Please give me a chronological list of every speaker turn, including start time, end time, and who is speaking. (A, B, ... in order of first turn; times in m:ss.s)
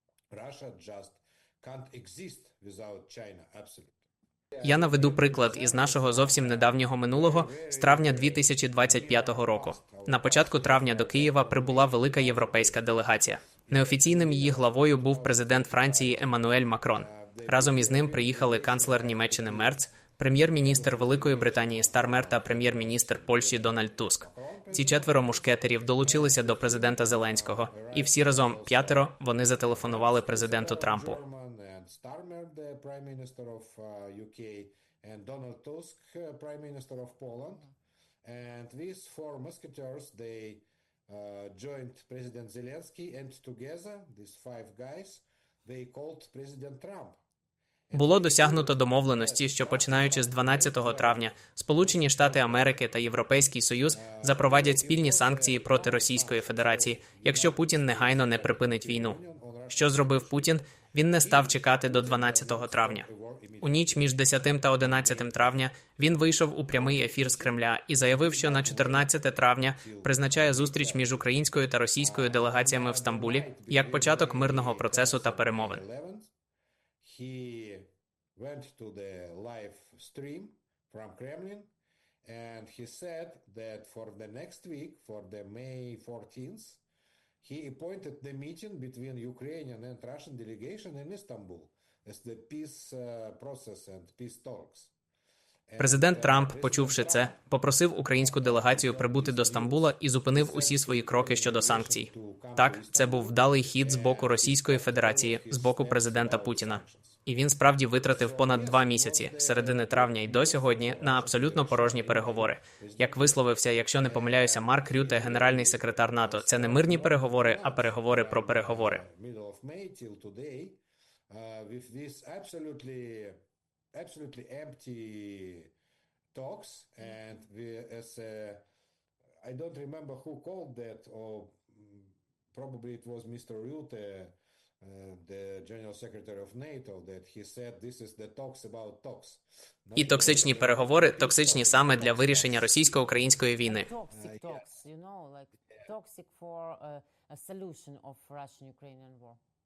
0:00.3-0:19.8 A
0:04.6-0:31.2 B
0:20.6-0:37.7 A
0:38.2-0:47.2 A
0:47.9-0:51.3 A
0:47.9-0:59.2 B
0:51.8-0:52.8 A
0:53.9-1:00.6 A
0:59.7-1:03.0 B
1:01.2-1:05.5 A
1:03.6-1:15.8 B
1:06.6-1:09.1 A
1:09.8-1:16.3 A
1:17.0-1:21.7 A
1:22.2-1:26.8 A
1:27.4-1:34.9 A
1:35.7-1:37.4 A
1:35.8-1:59.0 B
1:38.1-1:47.2 A
1:48.0-1:53.4 A
1:54.0-2:03.4 A
2:03.9-2:05.7 A
2:06.3-2:08.6 A
2:09.4-2:23.2 A
2:20.0-2:23.9 B
2:23.6-2:29.4 C
2:24.1-2:24.8 A